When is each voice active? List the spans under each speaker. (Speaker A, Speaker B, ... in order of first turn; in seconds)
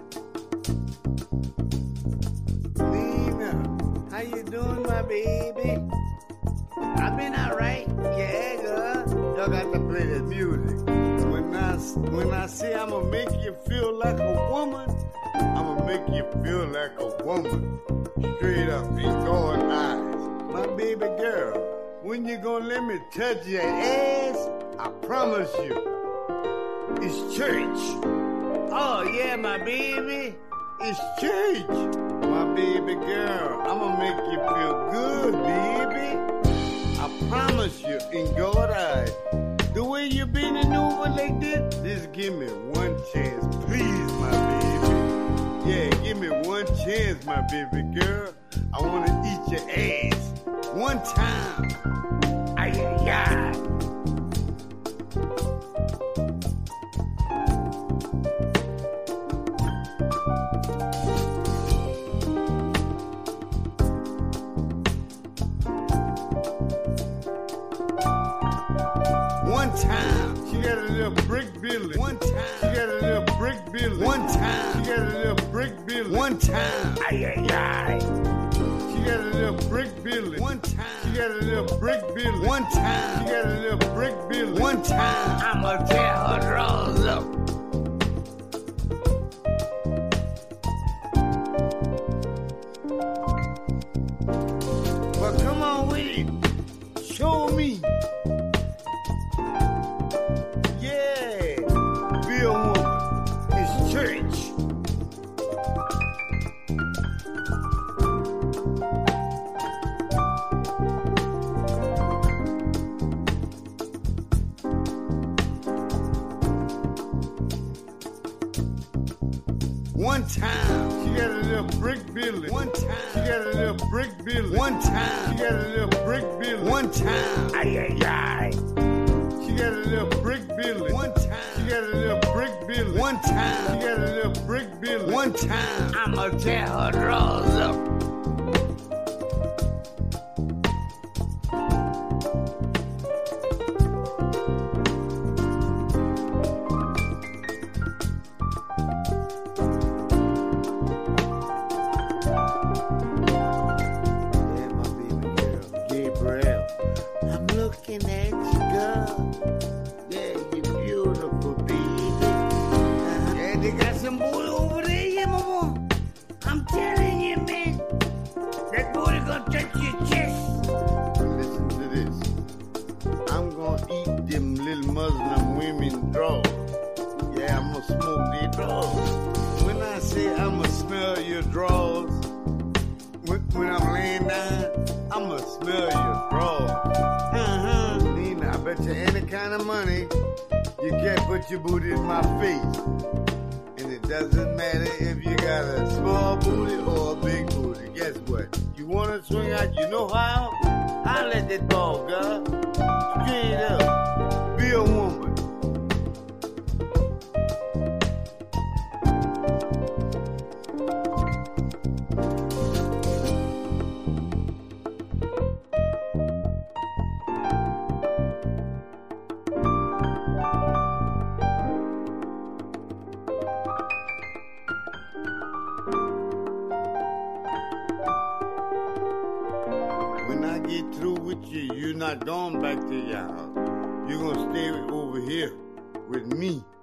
Speaker A: 2.8-5.8, 7.0-14.9, 15.5-17.7, 18.3-25.8, 27.0-28.0, 28.7-36.2, 37.0-39.2, 39.7-45.1, 45.6-51.8, 52.6-53.6, 69.4-78.1, 78.9-87.3, 95.2-96.4, 97.0-97.9, 100.7-101.7, 102.2-104.5, 120.0-128.6, 129.4-137.8, 154.4-156.7, 157.3-159.3, 160.1-162.4, 163.0-165.8, 166.4-167.8, 168.7-170.6, 171.2-172.3, 173.3-176.6, 177.3-182.2, 183.2-190.1, 190.8-192.8, 193.8-202.4, 203.1-203.9, 204.6-205.4, 230.2-233.5, 234.0-236.7